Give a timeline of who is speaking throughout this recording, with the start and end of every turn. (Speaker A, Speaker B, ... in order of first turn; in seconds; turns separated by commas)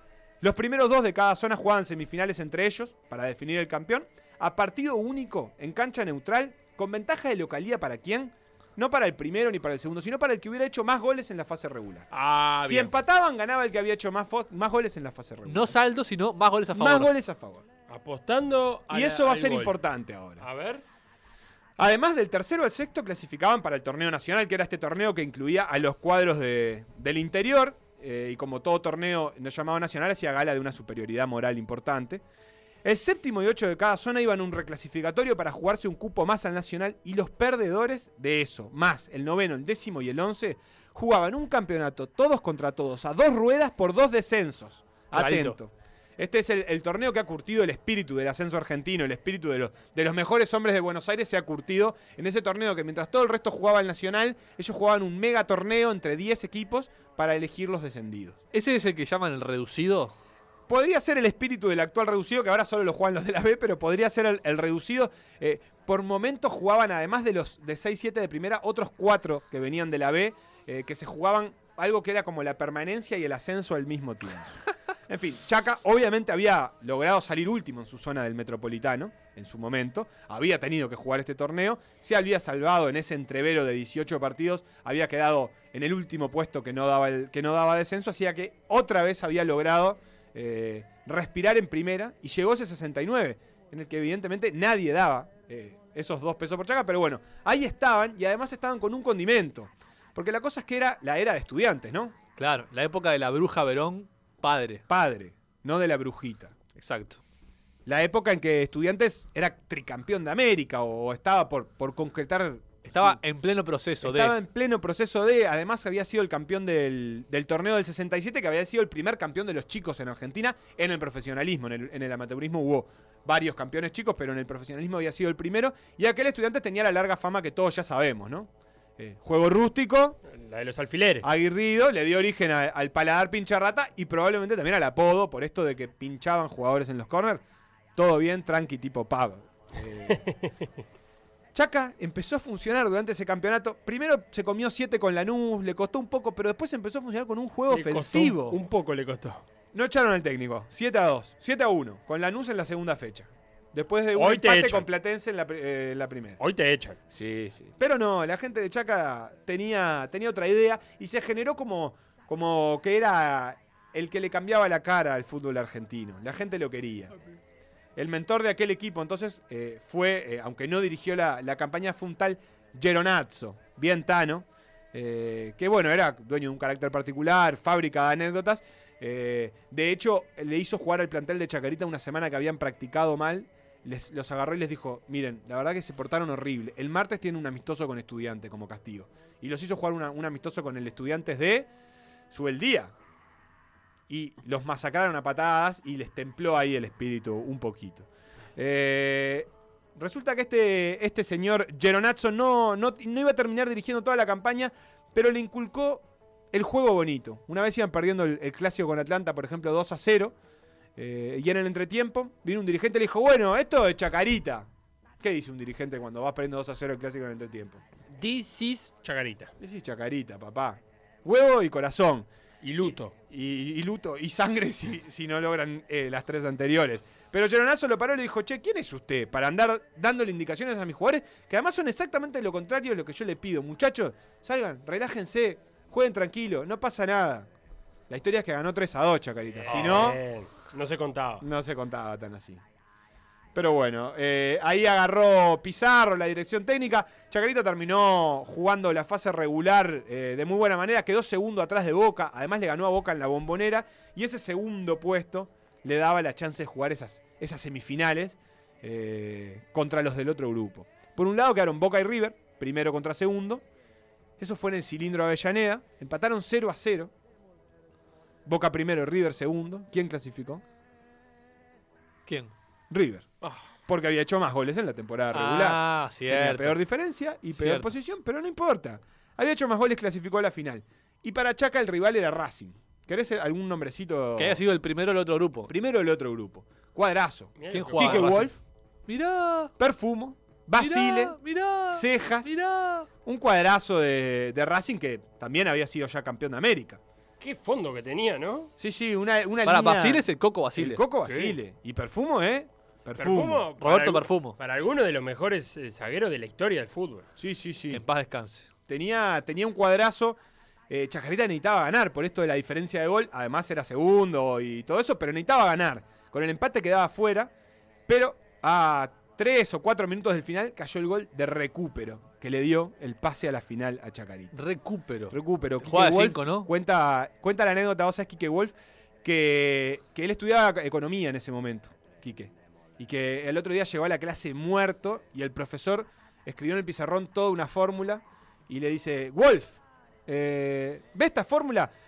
Speaker A: 0.4-12.1, Speaker B: 12.1-12.9, Speaker A: 12.6-15.8, Speaker C: 15.5-17.1, Speaker A: 16.7-17.6, Speaker B: 17.9-19.8, Speaker A: 18.9-20.4, Speaker B: 20.4-20.8, Speaker A: 21.8-32.2, Speaker A: 32.8-58.4, Speaker C: 45.1-45.6, Speaker C: 58.5-60.1, Speaker A: 60.7-102.2, Speaker C: 102.4-104.8, Speaker A: 104.9-106.5, Speaker C: 106.8-107.2, Speaker A: 107.9-113.2, Speaker C: 112.8-114.3, Speaker A: 114.0-130.2, Speaker B: 130.3-131.3, Speaker A: 131.2-137.4, Speaker A: 138.0-140.3, Speaker B: 140.1-140.5, Speaker A: 141.5-148.6, Speaker B: 147.7-149.4, Speaker A: 149.7-156.4, Speaker B: 154.2-154.9, Speaker B: 156.4-157.0, Speaker A: 157.1-167.1, Speaker A: 168.0-191.7, Speaker A: 192.3-192.9, Speaker A: 194.1-210.3, Speaker A: 211.0-214.7, Speaker A: 215.2-217.8, Speaker B: 218.1-219.5, Speaker A: 219.6-222.3, Speaker B: 222.6-223.1, Speaker A: 222.8-237.5, Speaker A: 238.1-240.2, Speaker B: 239.6-241.4, Speaker A: 241.4-242.6, Speaker A: 243.6-263.6, Speaker A: 264.4-267.1, Speaker A: 268.4-270.6, Speaker C: 272.3-272.5, Speaker A: 272.9-273.3, Speaker A: 273.9-284.6, Speaker C: 275.3-276.8, Speaker C: 277.5-277.9, Speaker C: 284.4-285.7, Speaker A: 285.7-288.6, Speaker B: 287.6-288.5, Speaker C: 287.7-288.5, Speaker C: 289.1-289.7, Speaker A: 289.8-291.4, Speaker C: 290.8-293.1, Speaker A: 291.9-292.5, Speaker A: 293.2-297.0, Speaker B: 297.4-298.7, Speaker A: 298.8-303.7, Speaker C: 299.6-301.0, Speaker B: 301.3-301.6, Speaker B: 303.2-307.3, Speaker C: 303.8-304.6, Speaker A: 307.4-308.0, Speaker C: 307.9-308.7, Speaker A: 308.9-310.4, Speaker A: 310.9-317.5, Speaker A: 318.1-324.5, Speaker C: 324.5-326.7, Speaker A: 325.3-341.9